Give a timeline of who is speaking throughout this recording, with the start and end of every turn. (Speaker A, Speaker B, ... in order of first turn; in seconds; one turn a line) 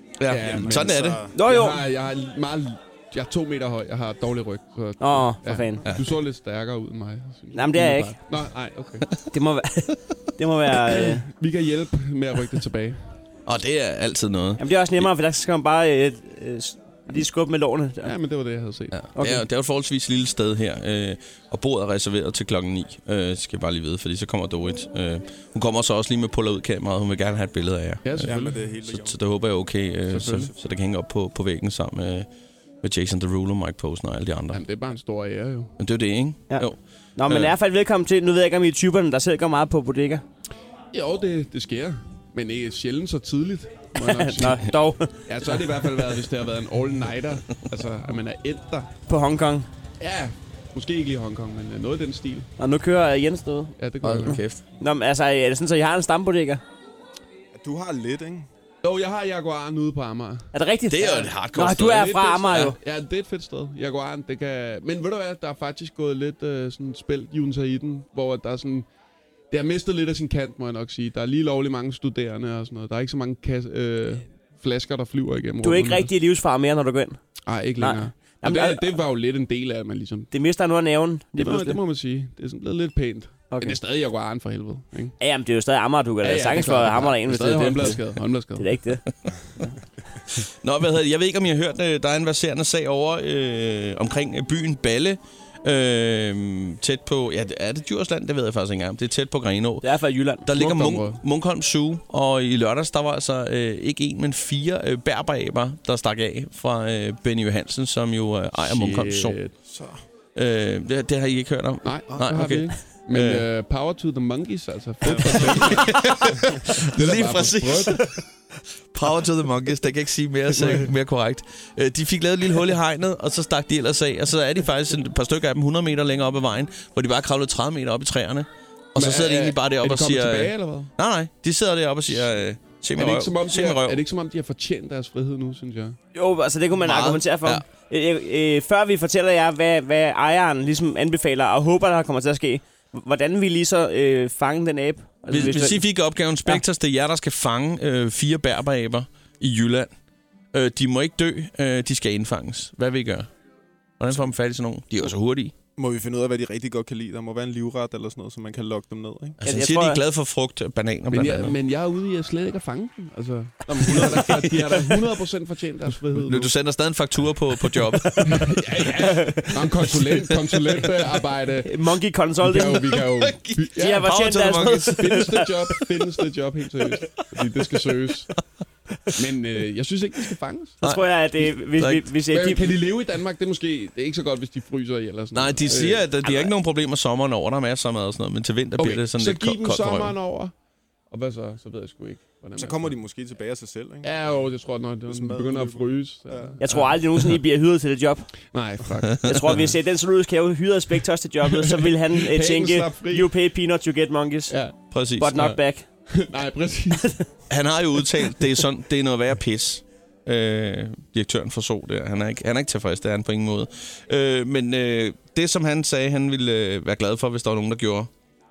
Speaker A: 0.2-1.3
Speaker B: 0.3-9.1
Speaker C: 0.4-1.4
Speaker D: 1.3-1.8
Speaker D: 5.0-5.9
Speaker D: 7.5-8.2
Speaker D: 9.3-11.2
Speaker B: 10.7-13.0
Speaker A: 13.5-15.1
Speaker D: 14.6-18.1
Speaker B: 18.0-19.2
Speaker A: 18.9-32.3
Speaker D: 19.1-19.4
Speaker B: 28.0-28.6
Speaker C: 28.2-29.2
Speaker B: 30.1-30.5
Speaker A: 32.8-34.6
Speaker B: 34.5-35.7
Speaker A: 35.8-37.5
Speaker D: 36.5-40.2
Speaker B: 40.9-48.9
Speaker D: 44.0-45.2
Speaker D: 49.1-49.7
Speaker B: 50.0-52.5
Speaker D: 52.6-53.7
Speaker B: 53.8-54.4
Speaker A: 54.0-54.6
Speaker D: 54.8-56.6
Speaker C: 57.5-58.5
Speaker B: 58.8-60.4
Speaker D: 60.5-62.8
Speaker A: 60.9-62.7
Speaker B: 61.9-68.9
Speaker B: 69.5-76.1
Speaker D: 75.6-77.2
Speaker B: 77.5-80.3
Speaker D: 77.8-78.9
Speaker D: 80.3-81.8
Speaker B: 81.3-85.2
Speaker D: 83.5-83.8
Speaker D: 85.2-89.0
Speaker B: 86.2-88.7
Speaker A: 90.3-99.9
Speaker D: 99.8-100.5
Speaker A: 100.5-109.4
Speaker B: 100.5-101.2
Speaker B: 108.6-109.5
Speaker C: 109.7-110.0
Speaker A: 110.3-113.5
Speaker B: 111.8-116.2
Speaker C: 115.0-115.7
Speaker A: 115.2-118.3
Speaker B: 116.8-118.0
Speaker A: 118.9-134.0
Speaker B: 120.5-120.9
Speaker B: 128.9-130.9
Speaker B: 132.9-136.0
Speaker D: 136.1-145.8
Speaker A: 136.8-137.6
Speaker A: 145.3-149.9
Speaker A: 150.5-153.3
Speaker A: 154.0-155.5
Speaker C: 155.8-159.4
Speaker A: 159.4-161.6
Speaker D: 159.4-160.0
Speaker B: 161.1-166.5
Speaker A: 163.7-165.1
Speaker A: 166.1-168.6
Speaker B: 168.2-174.1
Speaker D: 169.0-169.4
Speaker A: 170.0-170.9
Speaker D: 171.6-172.9
Speaker A: 173.1-175.6
Speaker D: 173.8-175.4
Speaker B: 174.9-178.3
Speaker A: 176.8-178.0
Speaker B: 179.1-180.8
Speaker A: 180.8-182.1
Speaker D: 180.8-182.8
Speaker B: 182.3-186.1
Speaker A: 185.3-190.1
Speaker D: 186.2-186.5
Speaker B: 188.8-190.5
Speaker B: 191.1-192.9
Speaker C: 192.6-194.1
Speaker B: 194.0-197.0
Speaker C: 195.1-196.6
Speaker D: 196.6-198.3
Speaker B: 198.5-199.3
Speaker A: 199.2-199.6
Speaker D: 199.2-204.6
Speaker B: 201.4-203.3
Speaker B: 204.5-204.8
Speaker A: 204.9-205.6
Speaker D: 205.1-205.9
Speaker B: 206.1-207.2
Speaker A: 207.5-218.1